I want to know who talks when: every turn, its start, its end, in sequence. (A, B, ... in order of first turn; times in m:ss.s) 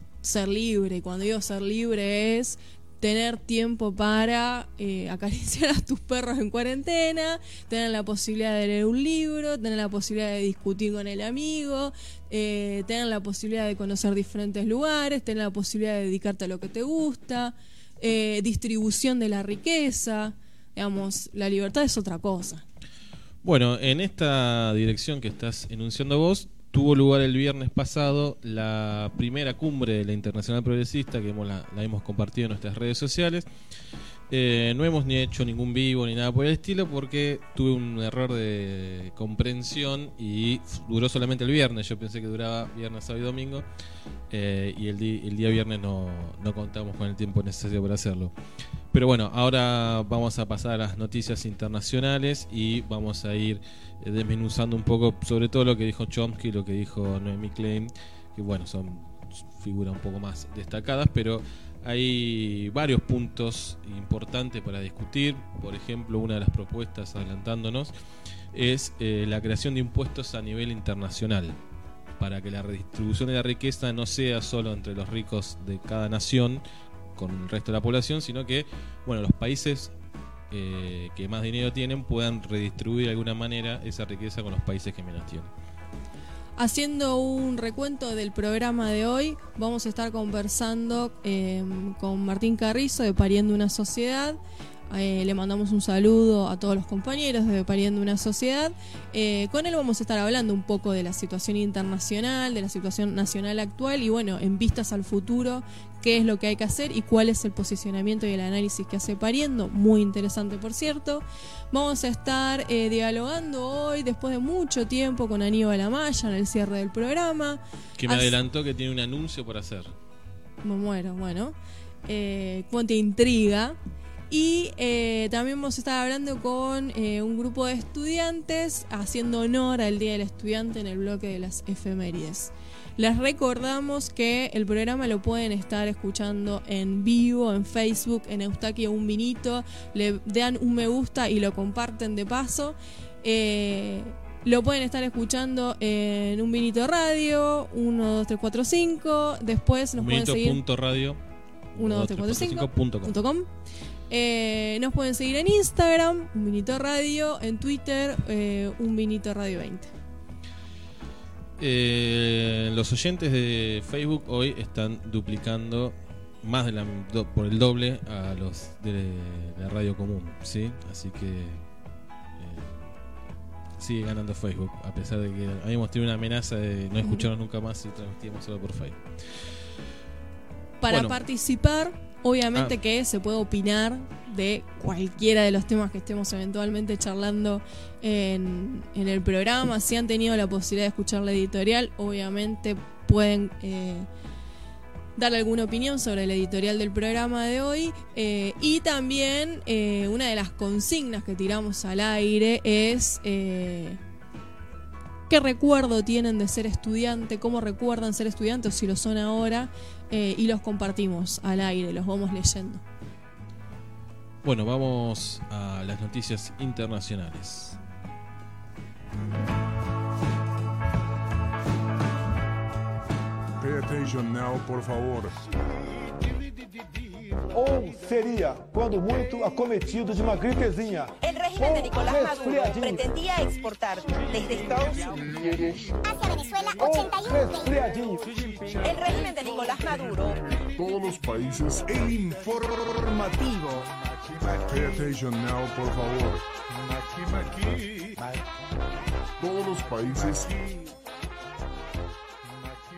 0:00.2-0:22.6 A
0:23.4-0:33.5 B
0:34.3-0:43.7 B
0:44.3-0:48.3 B
0:48.9-1:07.9 B
1:08.5-1:11.6 B
1:12.2-1:16.6 B
1:17.2-1:19.9 B
1:20.5-1:25.5 B
1:26.6-1:34.4 A
1:34.9-1:58.3 A
1:58.0-2:00.0 B
2:00.6-2:03.8 A
2:04.3-2:30.6 A
2:30.0-2:31.2 B
2:31.7-2:33.2 B
2:31.8-2:33.5 A
2:34.1-2:39.9 A
2:41.6-2:51.6 B
2:52.4-2:53.0 B
2:53.8-2:59.1 B
2:57.0-2:57.3 A
3:00.8-3:14.1 A
3:00.9-3:01.2 B
3:15.2-3:24.0 A
3:25.3-3:32.8 A
3:34.4-3:37.8 B
3:43.6-3:45.3 C
3:47.5-3:53.2 D
3:51.2-3:55.1 E
3:56.2-3:57.4 E
3:56.7-3:58.8 D
3:58.8-4:00.4 E
4:00.7-4:03.3 C
4:04.5-4:06.5 C
4:09.4-4:10.7 C